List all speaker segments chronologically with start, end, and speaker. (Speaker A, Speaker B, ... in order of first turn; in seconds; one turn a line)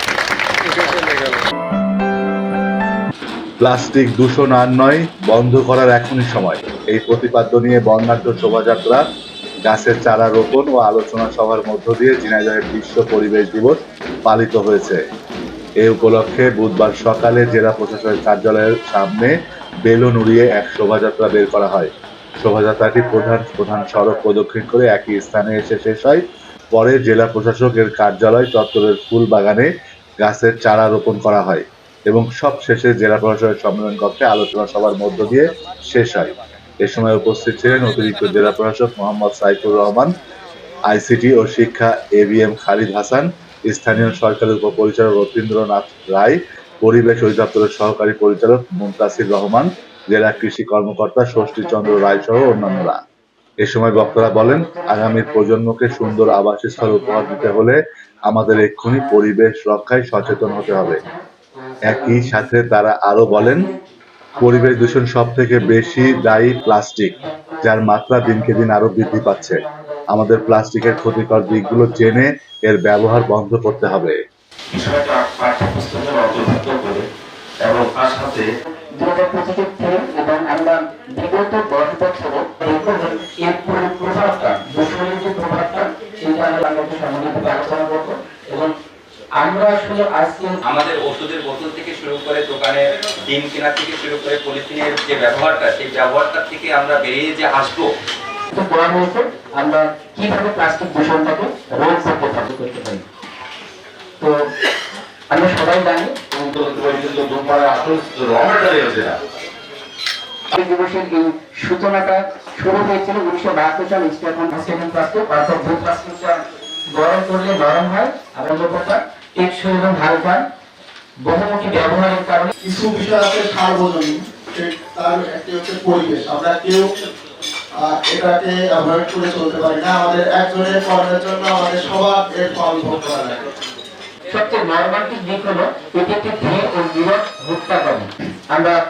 Speaker A: 3.6-9.0
Speaker A: 9.7-15.0
Speaker A: 15.8-19.3
Speaker A: 19.8-21.9
Speaker A: 22.4-26.2
Speaker A: 26.7-29.7
Speaker A: 30.2-36.3
Speaker A: 36.8-40.1
Speaker A: 40.9-53.0
Speaker A: 53.6-61.0
Speaker B: 54.4-55.2
Speaker B: 56.8-57.3
Speaker B: 60.4-62.2
Speaker A: 61.9-63.7
Speaker B: 63.3-63.8
Speaker B: 64.3-65.0
Speaker A: 64.4-69.6
Speaker B: 65.9-66.5
Speaker B: 67.2-67.6
Speaker B: 68.2-70.0
Speaker A: 70.1-74.2
Speaker B: 70.8-71.9
Speaker C: 74.7-77.0
Speaker C: 77.6-78.4
Speaker B: 79.0-88.7
Speaker B: 89.4-90.6
Speaker D: 90.7-97.9
Speaker B: 98.5-103.0
Speaker B: 105.3-106.2
Speaker C: 106.3-109.2
Speaker B: 110.5-116.4
Speaker B: 116.9-120.4
Speaker B: 121.2-122.5
Speaker E: 122.6-126.9
Speaker E: 127.8-133.4
Speaker B: 134.3-138.8